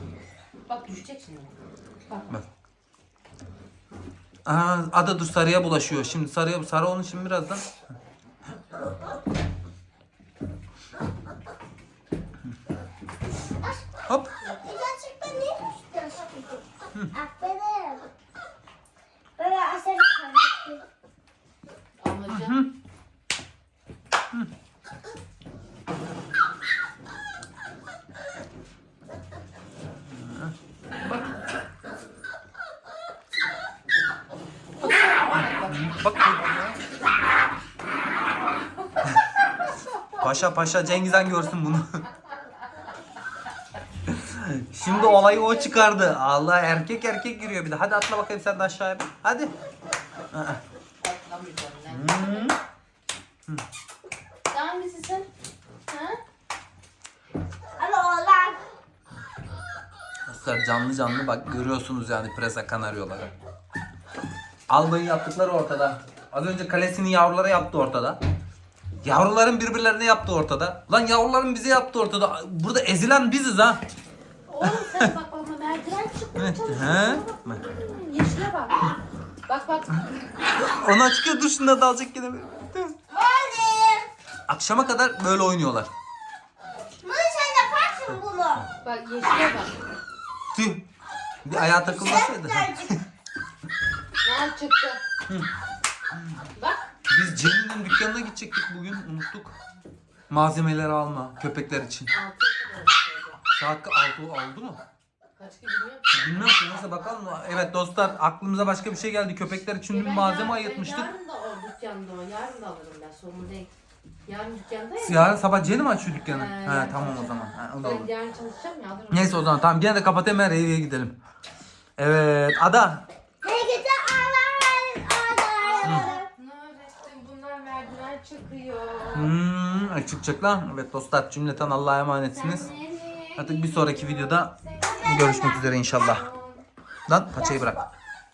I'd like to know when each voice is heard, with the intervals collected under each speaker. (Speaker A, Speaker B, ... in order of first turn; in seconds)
Speaker A: 0.7-1.5, 22.0-22.6, 34.8-36.0, 39.6-41.4, 44.8-46.1, 51.0-52.5, 54.5-55.3, 55.9-56.2, 74.5-78.9, 79.5-80.2, 88.8-89.8, 94.2-95.0, 96.5-96.9, 102.1-103.4, 105.4-106.7, 109.9-113.7, 114.2-115.4, 116.2-119.6, 125.6-129.3, 132.3-136.6
Speaker B: 4.4-7.6, 14.1-14.3, 22.3-22.7, 30.1-31.2, 35.7-36.8, 40.2-42.0, 44.0-49.5, 50.3-50.6, 51.9-52.6, 60.3-63.3, 64.7-68.2, 69.0-73.8, 74.6-75.1, 76.3-77.6, 80.6-83.0, 84.5-85.9, 90.5-90.9, 91.4-93.0, 96.1-96.4, 97.1-99.5, 100.3-102.1, 103.5-104.8, 106.1-111.1, 115.0-118.1, 119.1-121.2, 122.0-123.1, 125.8-126.1, 129.1-132.7, 133.3-136.3, 137.1-137.8
Speaker C: 13.5-13.9, 14.4-18.0, 19.4-20.8, 57.8-58.6, 83.1-84.1, 87.0-88.7, 91.5-93.0, 123.4-126.3, 137.4-137.9